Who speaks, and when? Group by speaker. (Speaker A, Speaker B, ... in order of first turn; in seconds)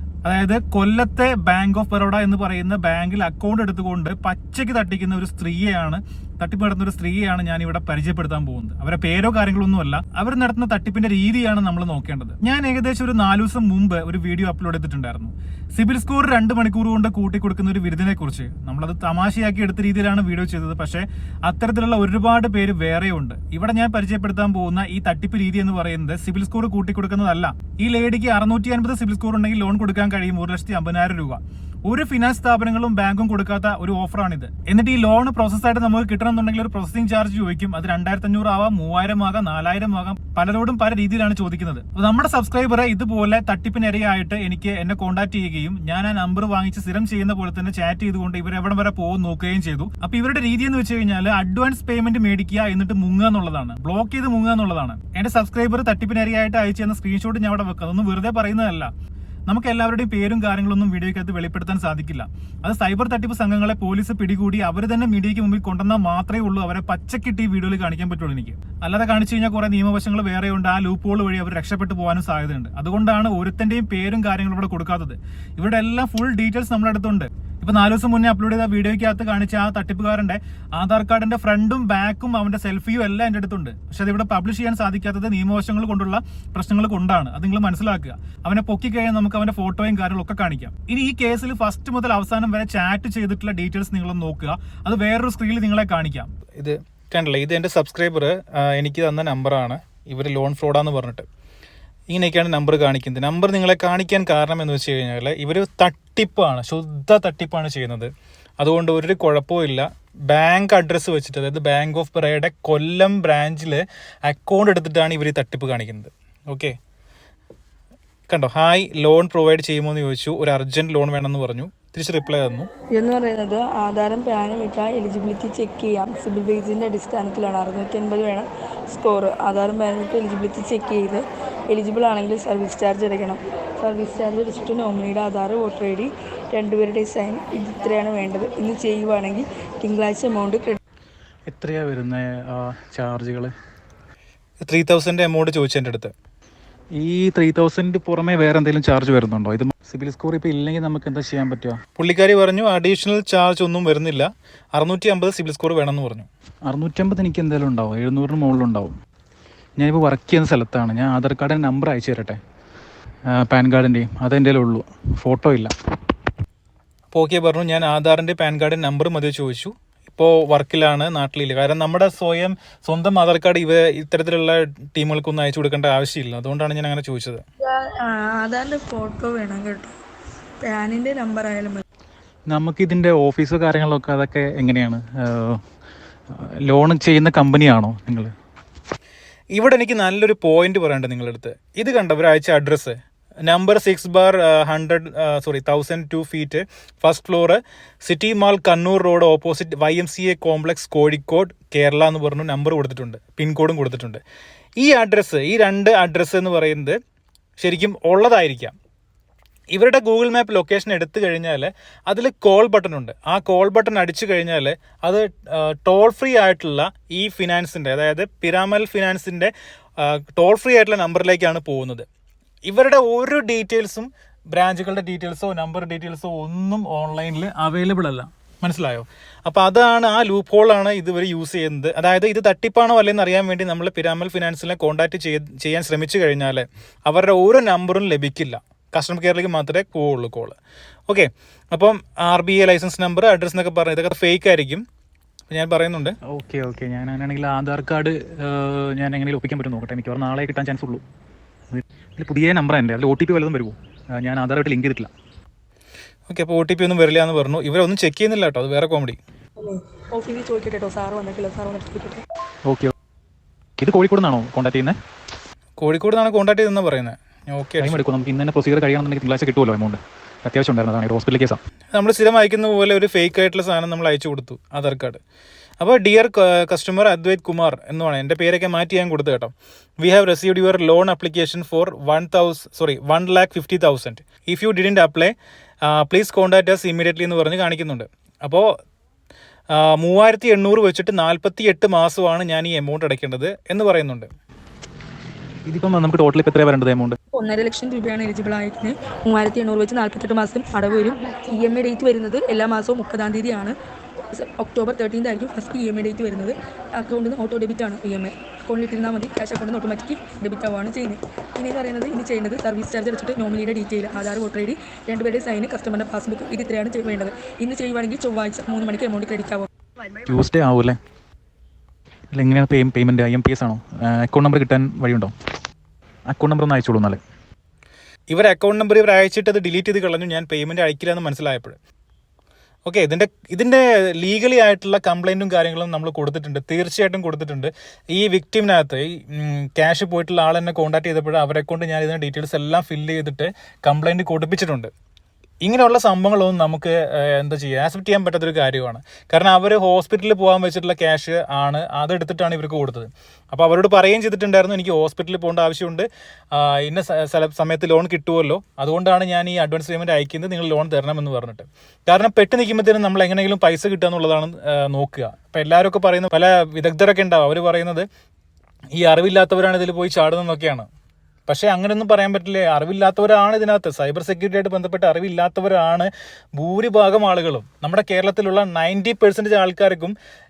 Speaker A: 0.2-58.9, 59.5-101.3, 102.1-116.8, 118.3-122.7, 144.6-146.1, 152.0-156.3, 167.1-177.4, 189.5-204.2, 204.8-207.0, 207.6-208.8, 209.7-222.1, 222.7-240.6, 241.1-244.8, 245.5-246.2, 256.3-259.2, 265.8-268.0, 271.9-275.2, 275.8-285.3, 285.9-288.7, 289.7-294.3, 328.3-331.8, 332.9-344.9, 345.6-368.1, 368.9-370.9, 371.5-380.1
Speaker B: 122.9-140.8, 177.6-180.0, 180.6-181.8, 259.6-262.2, 297.3-303.8, 304.3-319.7
Speaker C: 141.5-143.5, 146.9-151.8, 156.7-159.0, 159.8-162.4, 163.3-165.7, 182.5-185.6, 186.3-188.3, 246.2-251.0, 251.7-255.1, 262.6-262.9, 263.8-265.0, 267.8-271.6, 295.7-297.2, 320.3-321.0, 322.3-325.3, 326.3-327.2